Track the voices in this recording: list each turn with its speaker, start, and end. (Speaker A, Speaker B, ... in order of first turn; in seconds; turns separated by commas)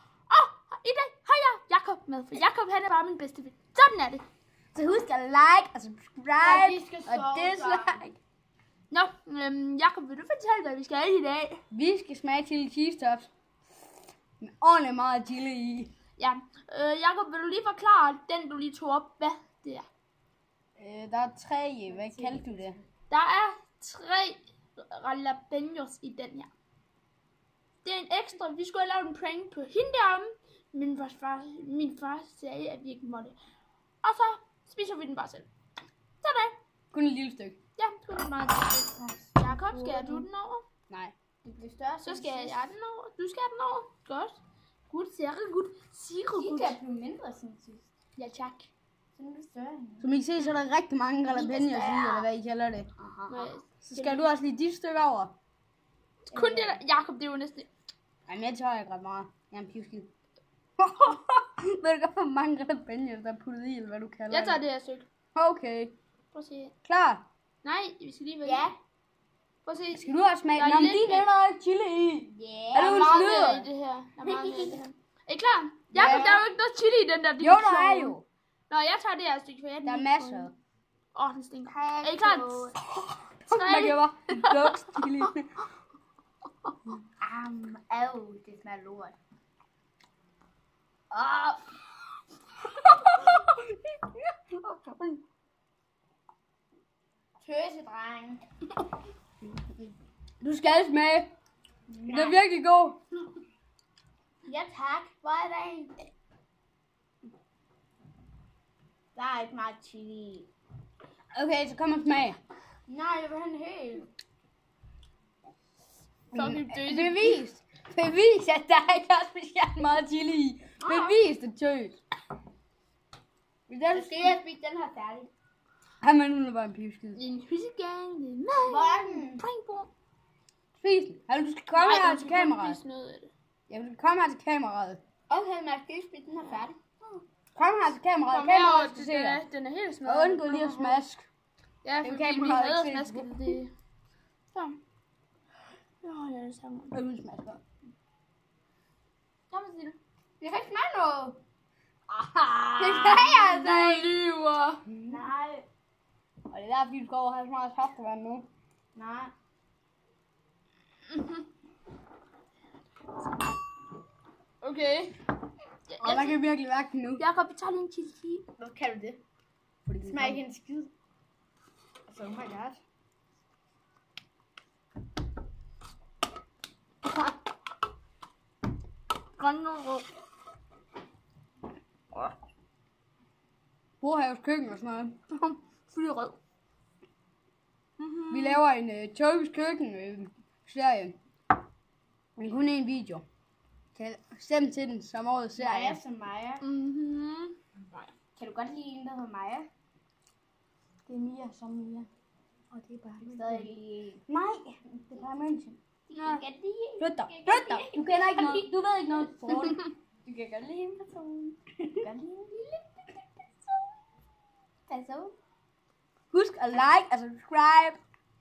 Speaker A: 0.3-4.2, Speaker B: 4.7-8.2, Speaker C: 6.4-8.0, Speaker A: 8.9-11.6, Speaker B: 11.7-13.3, Speaker B: 14.4-15.9, Speaker A: 16.2-19.9, Speaker B: 20.8-22.8, Speaker C: 22.1-22.6, Speaker A: 23.1-26.5, Speaker A: 27.8-33.4, Speaker A: 34.0-35.5, Speaker A: 36.2-36.6, Speaker B: 36.9-37.6, Speaker A: 37.8-40.6, Speaker C: 39.0-40.3, Speaker C: 41.4-42.7, Speaker A: 42.0-46.8, Speaker C: 46.3-47.9, Speaker A: 48.2-48.7, Speaker C: 49.1-50.1, Speaker B: 50.0-55.3, Speaker C: 51.2-52.3, Speaker A: 53.3-54.2, Speaker A: 56.3-57.7, Speaker C: 56.3-56.8, Speaker B: 58.3-60.1, Speaker B: 60.8-64.6, Speaker A: 64.3-65.1, Speaker B: 65.3-65.9, Speaker A: 66.3-66.7, Speaker B: 66.8-67.3, Speaker A: 67.6-68.7, Speaker C: 68.4-68.8, Speaker A: 69.7-71.3, Speaker B: 70.0-73.7, Speaker C: 72.3-73.2, Speaker A: 72.8-78.2, Speaker C: 74.2-74.8, Speaker B: 75.9-76.5, Speaker B: 77.4-78.2, Speaker A: 78.7-80.5, Speaker B: 79.8-80.5, Speaker A: 81.1-82.8, Speaker C: 81.7-82.8, Speaker B: 82.9-85.5, Speaker A: 83.5-85.3, Speaker C: 87.2-89.2, Speaker C: 91.1-91.6, Speaker B: 94.5-95.2, Speaker C: 97.4-98.4, Speaker B: 100.4-101.3, Speaker C: 101.9-102.4, Speaker B: 102.1-103.0, Speaker C: 104.4-106.1, Speaker C: 109.2-110.5, Speaker B: 111.3-112.4, Speaker C: 112.9-114.1, Speaker A: 116.3-117.4, Speaker B: 116.3-122.0, Speaker C: 120.8-121.2, Speaker B: 123.7-124.4, Speaker C: 123.9-125.3, Speaker B: 126.0-127.2, Speaker A: 127.2-129.9, Speaker C: 128.7-129.4, Speaker B: 130.8-132.8, Speaker A: 131.8-133.3, Speaker B: 133.7-135.0, Speaker C: 135.3-137.2, Speaker B: 137.6-139.4, Speaker A: 138.3-141.0, Speaker B: 140.1-141.3, Speaker A: 141.8-143.7, Speaker B: 142.0-143.6, Speaker A: 144.5-144.8, Speaker A: 146.0-147.0, Speaker B: 146.9-147.6, Speaker A: 149.5-150.0, Speaker C: 150.4-151.4, Speaker B: 152.1-153.3, Speaker C: 152.8-154.2, Speaker A: 153.2-154.9, Speaker B: 154.9-155.2, Speaker C: 155.0-155.7, Speaker B: 156.5-158.5, Speaker C: 158.9-159.3, Speaker A: 161.1-161.4, Speaker A: 164.6-165.2, Speaker A: 165.9-166.4, Speaker B: 166.0-167.2, Speaker A: 167.2-168.4, Speaker C: 168.6-169.2, Speaker B: 169.9-170.4, Speaker C: 170.0-170.9, Speaker C: 172.1-172.8, Speaker A: 179.4-180.1, Speaker B: 184.0-185.2, Speaker A: 185.3-186.4, Speaker A: 188.0-188.6, Speaker B: 188.3-191.2, Speaker B: 192.4-193.2, Speaker B: 193.9-196.0, Speaker C: 195.6-196.6, Speaker A: 196.6-198.1, Speaker C: 198.4-199.7, Speaker B: 201.3-202.0, Speaker B: 202.7-203.7, Speaker C: 203.3-204.2, Speaker B: 204.3-205.8, Speaker C: 206.1-208.7, Speaker B: 207.0-209.9, Speaker C: 210.3-213.8, Speaker C: 214.9-215.3, Speaker B: 216.3-218.0